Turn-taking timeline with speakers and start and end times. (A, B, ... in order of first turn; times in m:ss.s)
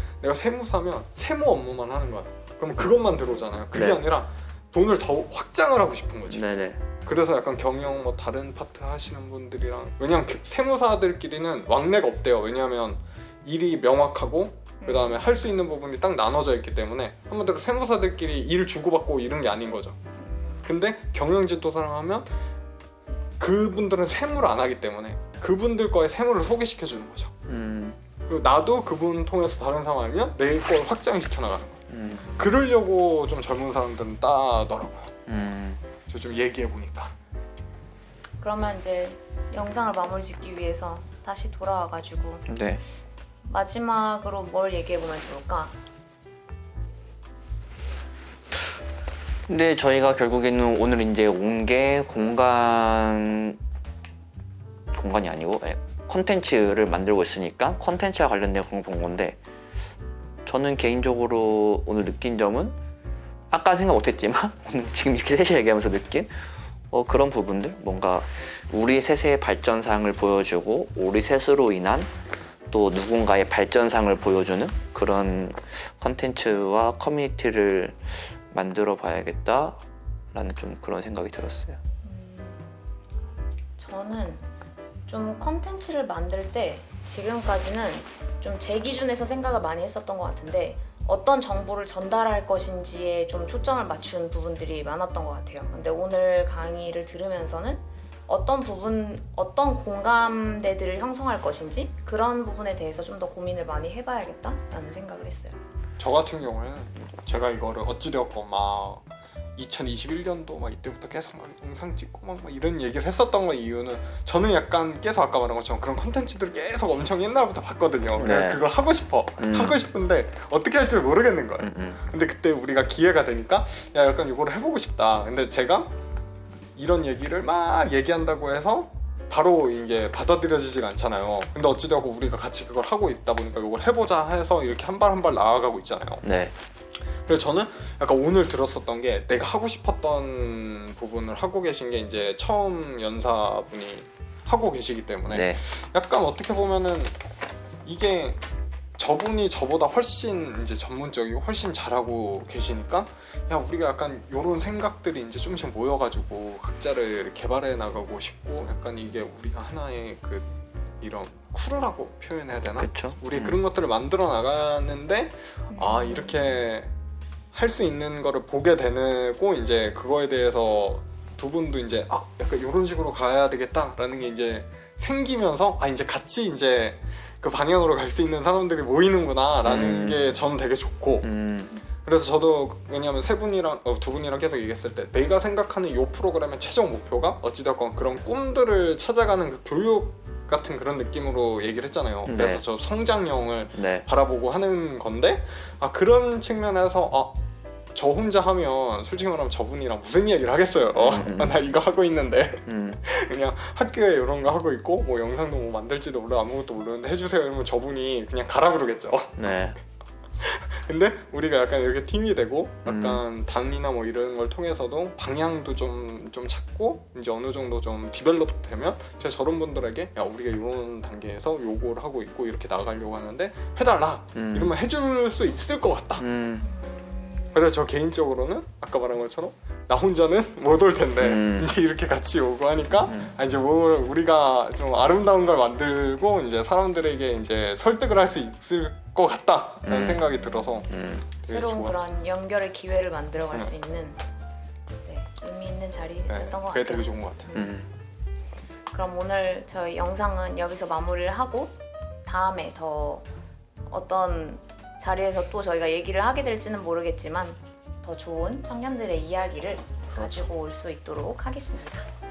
0:00.2-0:06.5 A
0:03.7-0:04.0 B
0:06.3-0:06.8 B
0:07.0-0:20.0 A
0:14.8-0:15.5 C
0:20.2-0:20.6 C
0:20.6-0:22.3 A
0:23.4-0:27.3 A
0:27.5-0:28.0 B
0:28.3-0:35.1 A
0:31.9-0:32.3 B
0:32.1-0:32.5 C
0:35.3-0:35.8 B
0:36.1-0:37.1 A
0:38.4-0:42.5 C
0:42.5-0:42.8 B
0:43.4-0:45.7 C
0:49.5-0:53.6 B
0:54.9-0:59.4 B
1:00.4-1:02.8 B
1:03.5-1:06.3 B
1:06.9-1:12.1 B
1:12.7-1:19.8 B
1:20.3-1:21.8 B
1:22.0-1:22.6 C
1:23.8-1:24.4 C
1:25.1-1:45.6 C
1:46.0-1:49.0 A
1:49.6-2:05.9 A
1:58.2-1:58.6 B
1:59.4-1:59.8 B
2:01.6-2:02.0 B
2:06.8-2:16.2 A
2:16.2-2:16.5 B
2:17.3-2:27.2 A
2:25.3-2:25.6 B
2:27.8-2:28.4 A
2:29.0-2:40.5 A
2:41.0-2:46.9 A
2:42.8-2:43.6 B
2:45.7-2:46.6 C
2:47.5-3:01.3 A
2:59.6-3:00.4 B
3:01.2-3:01.7 B
3:02.0-3:17.4 A
3:12.2-3:12.6 B
3:13.8-3:14.0 B
3:17.9-3:29.5 A
3:20.9-3:21.6 B
3:22.7-3:23.0 B
3:29.4-3:29.8 B
3:30.4-3:46.2 A
3:32.8-3:33.2 B
3:44.3-3:44.7 B
3:46.2-3:46.6 B
3:46.6-3:47.6 C
3:47.5-4:02.0 A
3:51.2-3:51.7 B
3:53.1-3:53.3 B
3:59.8-4:00.3 B
4:00.5-4:00.9 C
4:00.9-4:01.2 B
4:01.5-4:04.2 C
4:05.0-4:07.7 C
4:06.3-4:07.5 A
4:07.5-4:07.9 B
4:08.9-4:13.2 C
4:13.9-4:22.0 C